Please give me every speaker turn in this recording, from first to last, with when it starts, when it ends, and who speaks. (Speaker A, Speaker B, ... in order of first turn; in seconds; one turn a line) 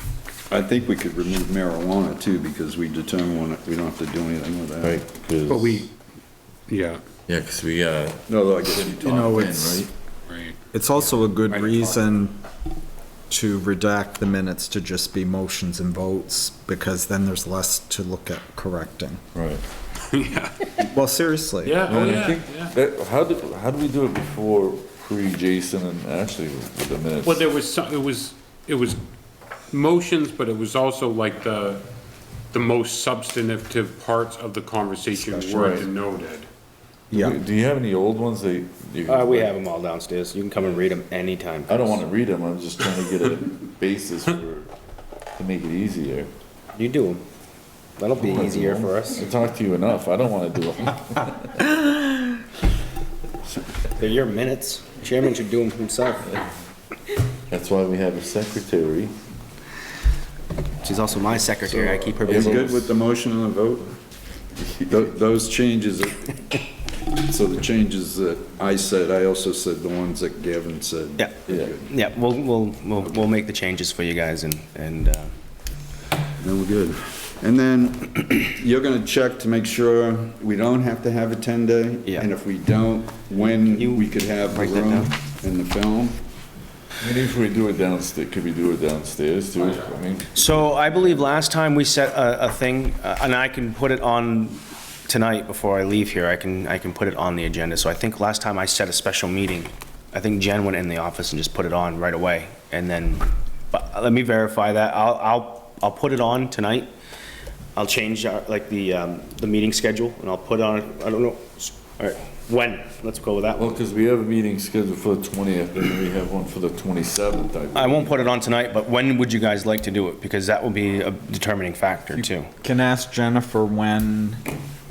Speaker A: 0.5-5.0
Speaker B: 4.8-5.7
Speaker C: 5.5-5.9
Speaker C: 6.7-7.0
Speaker B: 7.3-9.9
Speaker A: 8.3-9.3
Speaker D: 9.0-9.9
Speaker C: 10.3-10.6
Speaker D: 10.7-12.4
Speaker D: 13.3-19.2
Speaker B: 19.3-19.6
Speaker C: 20.1-20.6
Speaker D: 20.8-21.9
Speaker C: 21.6-22.7
Speaker B: 21.9-27.5
Speaker C: 27.2-29.0
Speaker C: 29.7-31.8
Speaker C: 32.5-36.5
Speaker D: 35.1-35.9
Speaker D: 37.1-37.4
Speaker B: 37.3-39.5
Speaker E: 39.1-41.9
Speaker B: 41.7-44.7
Speaker B: 45.4-46.3
Speaker E: 46.7-47.2
Speaker E: 48.0-49.3
Speaker B: 48.3-51.4
Speaker E: 53.9-56.4
Speaker B: 57.5-59.1
Speaker E: 60.8-62.8
Speaker A: 61.6-63.9
Speaker A: 64.6-66.6
Speaker A: 67.2-71.9
Speaker E: 71.2-75.3
Speaker A: 76.4-86.2
Speaker E: 83.7-85.1
Speaker B: 87.0-90.3
Speaker E: 90.3-106.9
Speaker E: 107.8-113.8
Speaker B: 113.6-118.0
Speaker E: 117.7-122.5
Speaker D: 122.2-124.4